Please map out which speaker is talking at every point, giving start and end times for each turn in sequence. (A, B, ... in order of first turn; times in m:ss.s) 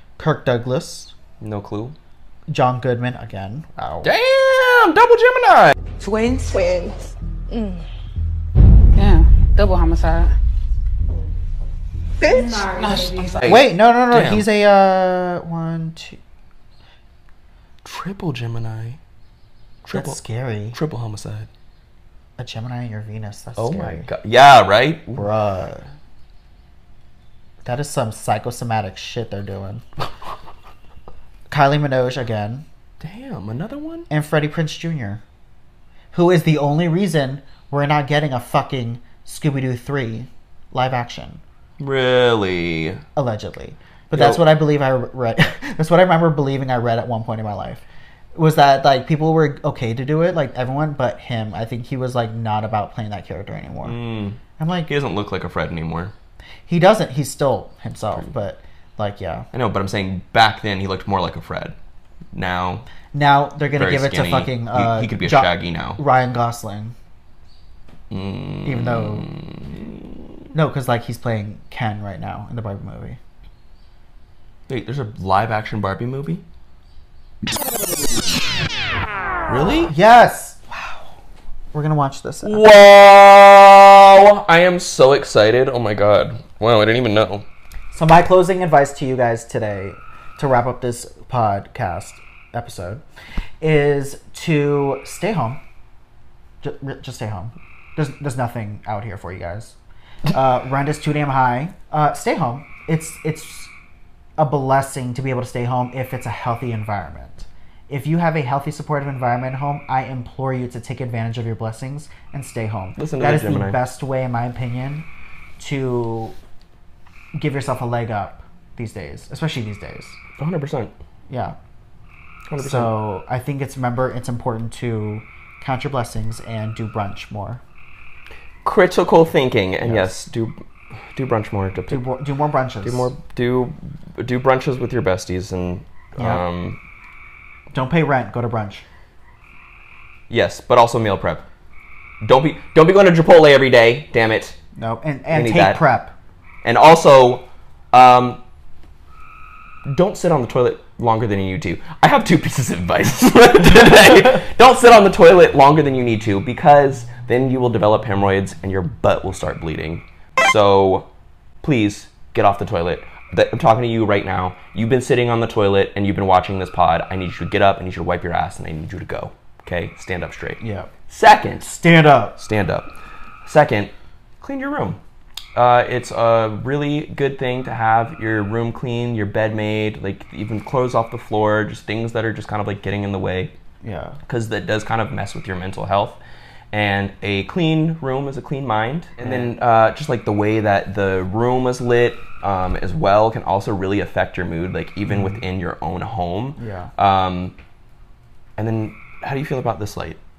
0:00.2-0:01.1 A
0:01.4-0:02.0 B
0:02.5-0:04.1 A
0:04.0-0:05.8 B
0:06.0-0:07.8 C
0:08.9-0:10.3 D
0:12.2-0:13.0 C
0:12.7-0:13.3 D
0:13.3-0:14.4 B
0:13.4-0:16.2 A
0:17.8-0:19.0 B
0:19.8-0:20.2 B
0:19.9-0:20.8 A
0:20.7-0:21.5 B
0:22.4-0:24.1 A
0:23.6-0:25.2 B
0:25.2-0:25.9 A
0:27.6-0:29.8 A
0:31.5-0:32.6 A
0:33.0-0:34.1 B
0:34.1-0:35.2 A
0:36.1-0:41.4 A
0:41.8-0:43.0 B
0:43.2-0:47.8 A
0:44.1-0:44.4 B
0:48.3-0:54.0 A
0:53.8-0:56.1 B
0:54.6-0:54.9 A
0:56.7-0:59.5 A
0:59.5-1:01.8 B
1:02.3-1:02.8 B
1:03.1-1:06.9 A
1:03.8-1:06.0 B
1:08.1-1:10.1 B
1:08.6-1:09.3 A
1:10.5-1:13.2 A
1:14.7-1:16.4 B
1:19.5-1:19.9 B
1:19.9-1:21.0 A
1:21.7-1:22.6 A
1:22.4-1:27.4 B
1:27.9-1:33.0 A
1:33.6-1:35.6 A
1:36.6-1:39.8 A
1:40.3-1:43.7 A
1:44.4-1:55.1 A
1:53.0-1:53.8 B
1:55.6-1:56.4 A
1:57.3-2:00.2 A
2:00.4-2:00.9 B
2:01.3-2:01.6 A
2:02.5-2:03.0 B
2:02.6-2:07.6 A
2:08.6-2:10.6 B
2:09.8-2:10.1 A
2:11.1-2:12.1 B
2:11.9-2:13.1 A
2:12.8-2:16.8 B
2:17.7-2:18.8 A
2:20.3-2:21.4 B
2:22.2-2:24.6 B
2:24.8-2:26.1 A
2:25.3-2:25.8 B
2:26.6-2:28.4 B
2:29.8-2:41.1 B
2:41.6-2:51.8 B
2:50.6-2:50.9 A
2:51.7-2:52.4 A
2:52.4-2:52.9 B
2:53.4-2:55.0 B
2:55.5-3:03.5 B
3:03.8-3:04.2 A
3:04.2-3:06.2 B
3:06.7-3:17.5 B
3:09.2-3:09.5 A
3:15.1-3:15.4 A
3:16.6-3:16.9 A
3:18.6-3:20.2 B